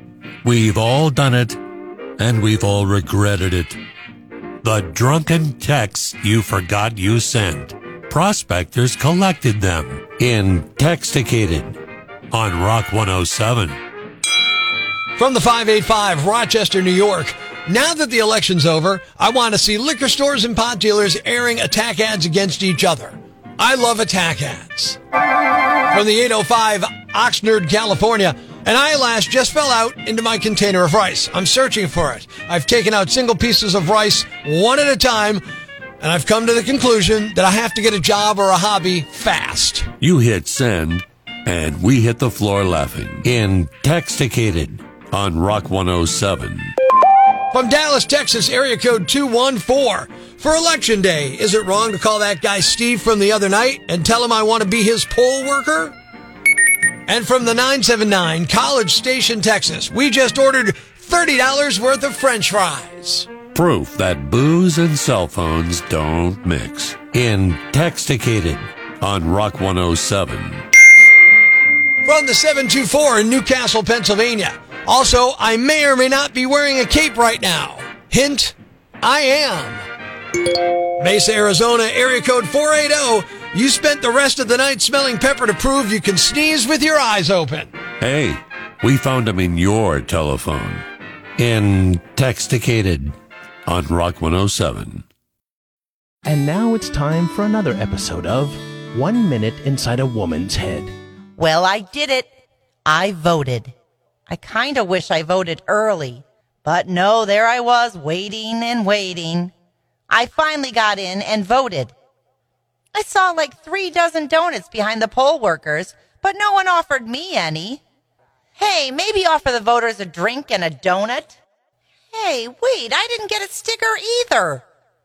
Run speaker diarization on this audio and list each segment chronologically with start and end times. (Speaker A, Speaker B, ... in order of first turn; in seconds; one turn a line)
Speaker A: 0.4-1.6
Speaker A: 2.2-3.8
Speaker A: 4.6-11.8
Speaker A: 12.3-13.8
Speaker B: 15.2-25.0
Speaker B: 25.9-35.4
Speaker B: 36.0-39.9
Speaker A: 40.0-46.7
Speaker B: 47.5-55.9
Speaker B: 57.1-63.3
Speaker A: 63.5-70.6
Speaker B: 72.0-79.8
Speaker B: 81.0-87.7
Speaker A: 88.0-90.8
Speaker A: 91.4-93.1
Speaker A: 93.7-95.0
Speaker C: 96.2-100.9
Speaker D: 101.4-102.3
Speaker D: 102.9-103.7
Speaker D: 104.3-109.5
Speaker D: 110.1-111.9
Speaker D: 112.9-117.8
Speaker D: 118.6-121.3
Speaker D: 122.1-124.6